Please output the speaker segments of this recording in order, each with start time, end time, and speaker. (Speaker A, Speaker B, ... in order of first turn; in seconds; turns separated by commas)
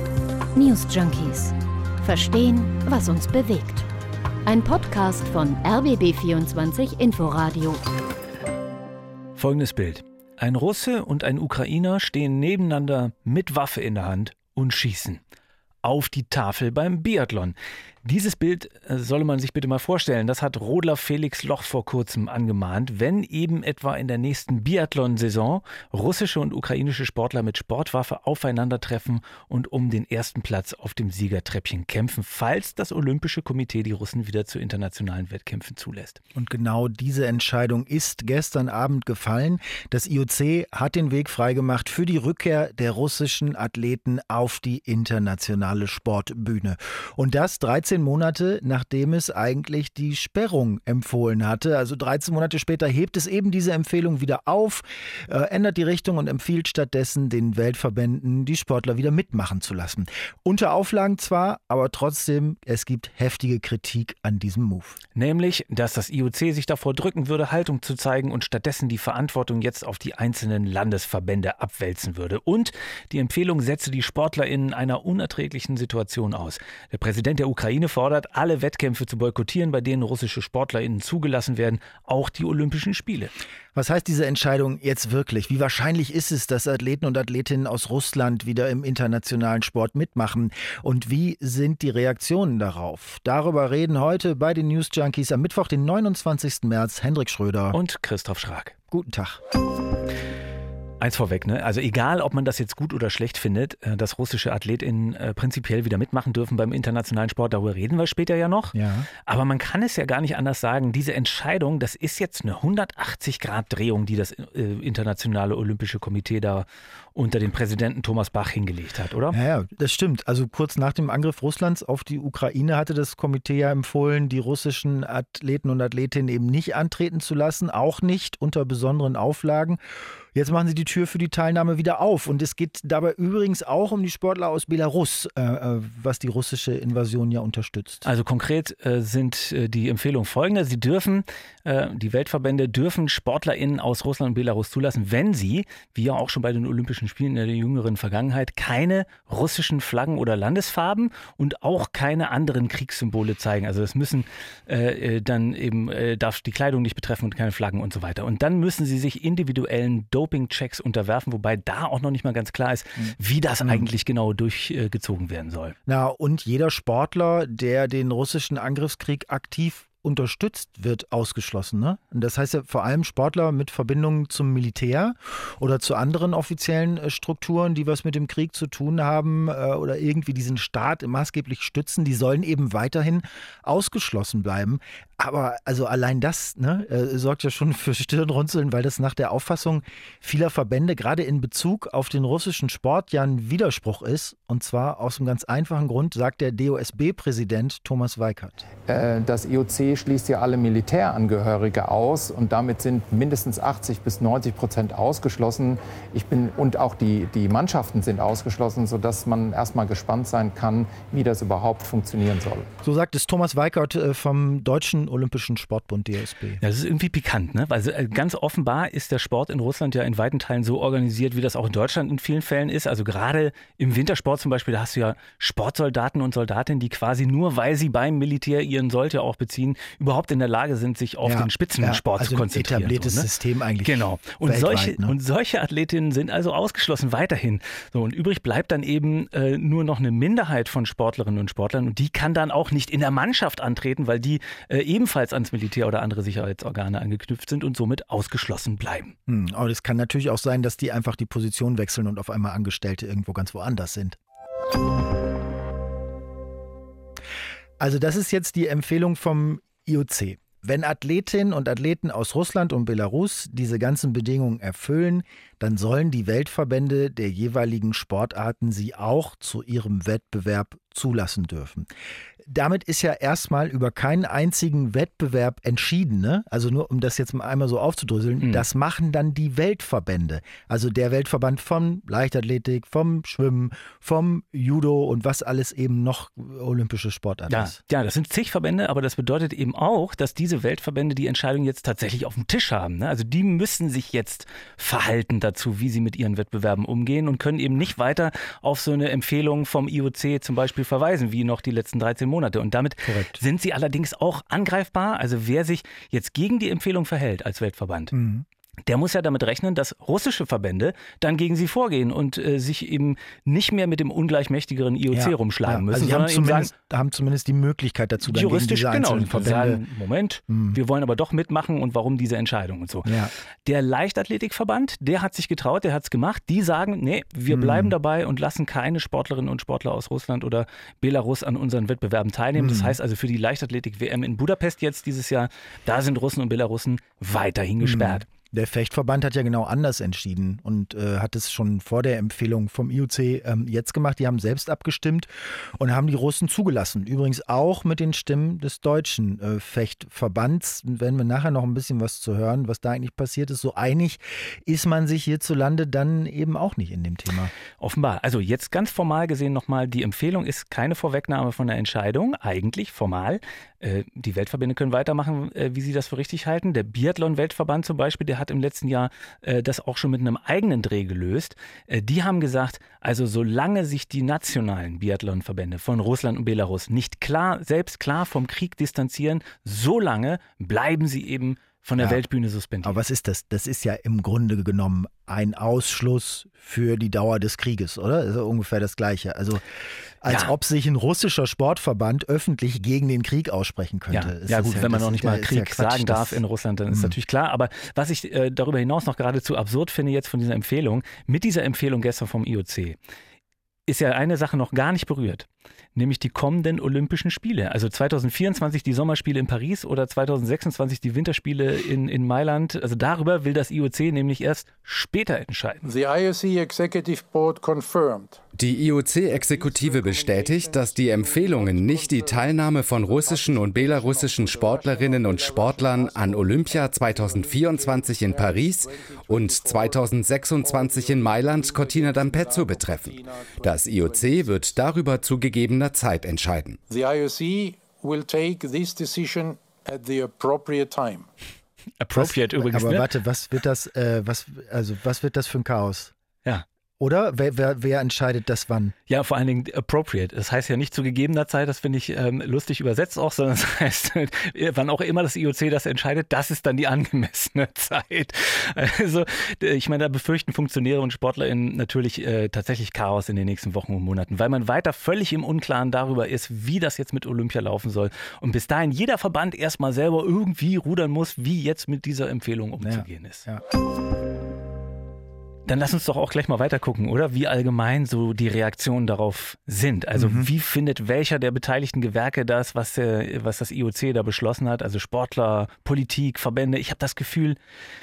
Speaker A: 0.6-3.9, Speaker A: 4.5-7.8, Speaker B: 9.4-15.2, Speaker B: 15.8-36.2, Speaker C: 36.4-65.0, Speaker B: 65.2-83.3, Speaker C: 83.7-97.8, Speaker B: 97.7-98.7, Speaker C: 98.9-99.4, Speaker B: 101.0-119.4, Speaker C: 108.7-109.1, Speaker C: 119.3-129.8, Speaker C: 130.3-138.1, Speaker B: 138.0-165.8, Speaker C: 163.0-163.9, Speaker C: 165.9-198.7, Speaker D: 198.9-212.7, Speaker C: 212.8-216.6, Speaker B: 216.6-233.3, Speaker C: 231.2-235.2, Speaker B: 233.8-249.2, Speaker C: 249.3-254.2, Speaker C: 257.8-271.9, Speaker C: 272.5-287.8, Speaker B: 287.5-308.1, Speaker C: 303.1-303.4, Speaker C: 308.1-308.4, Speaker B: 308.9-316.7, Speaker C: 315.1-319.8, Speaker B: 318.2-323.1, Speaker C: 320.5-320.8, Speaker C: 323.1-323.3, Speaker B: 323.6-338.2, Speaker C: 327.5-328.0, Speaker C: 332.6-333.0, Speaker C: 337.8-357.5, Speaker B: 357.8-383.0, Speaker C: 382.8-389.6, Speaker C: 390.2-397.2, Speaker B: 390.3-390.6, Speaker B: 394.1-403.0, Speaker B: 403.9-415.9, Speaker E: 415.8-418.4, Speaker F: 418.6-436.8, Speaker E: 419.3-434.7, Speaker E: 436.9-441.3, Speaker B: 442.0-443.1, Speaker C: 442.1-446.1, Speaker C: 447.0-448.9, Speaker B: 449.1-473.5, Speaker C: 472.8-473.6, Speaker B: 475.7-487.6, Speaker C: 480.1-480.5